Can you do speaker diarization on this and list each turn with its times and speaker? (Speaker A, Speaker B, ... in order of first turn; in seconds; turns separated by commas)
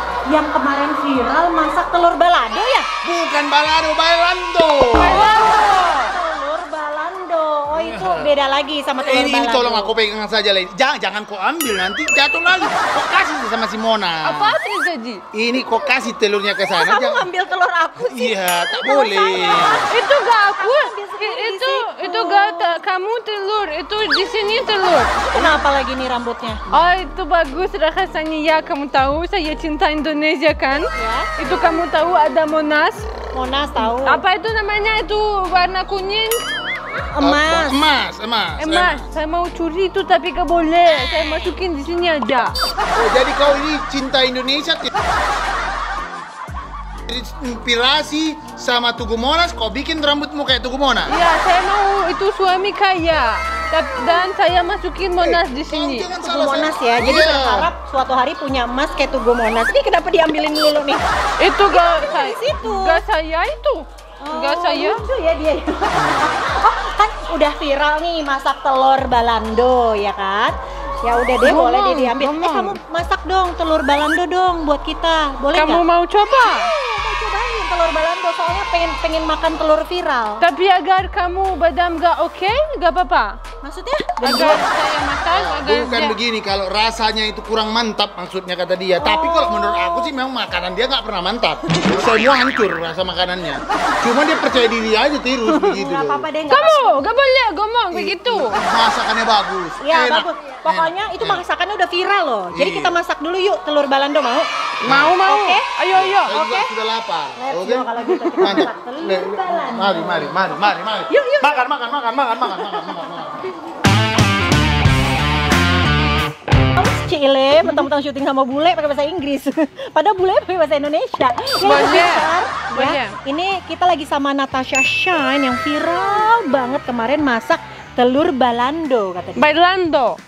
Speaker A: 0.3-2.9, Speaker B: 3.0-5.3, Speaker C: 4.9-6.1, Speaker A: 5.0-9.9, Speaker B: 7.8-8.3, Speaker B: 9.0-14.5, Speaker C: 14.2-15.2, Speaker B: 15.3-17.3, Speaker A: 16.7-19.9, Speaker B: 18.0-19.8, Speaker C: 19.8-25.1, Speaker A: 20.6-22.8, Speaker A: 25.2-26.6, Speaker C: 26.7-33.1, Speaker A: 30.9-31.3, Speaker A: 33.3-34.2, Speaker C: 34.0-36.4, Speaker A: 37.0-37.8, Speaker B: 37.2-39.0, Speaker C: 38.6-42.5, Speaker B: 42.9-44.9, Speaker B: 47.1-51.1, Speaker C: 51.1-56.1, Speaker B: 55.2-57.7, Speaker A: 56.2-61.0, Speaker C: 61.4-65.0, Speaker A: 61.6-63.0, Speaker A: 64.2-80.4, Speaker B: 66.0-66.4, Speaker C: 71.4-72.8, Speaker C: 75.5-76.7, Speaker C: 80.4-83.4, Speaker A: 83.6-84.6, Speaker C: 84.2-86.2, Speaker B: 85.3-96.3, Speaker A: 89.0-90.1, Speaker A: 95.5-97.0, Speaker C: 96.5-98.5, Speaker B: 97.9-101.4, Speaker A: 99.8-104.5, Speaker B: 102.5-103.0, Speaker C: 104.8-106.3, Speaker B: 104.8-105.2, Speaker A: 105.2-105.6, Speaker B: 105.9-113.5, Speaker A: 106.3-106.7, Speaker A: 107.4-110.6, Speaker A: 111.1-111.6, Speaker A: 116.8-129.4, Speaker C: 121.6-123.1, Speaker C: 129.4-130.2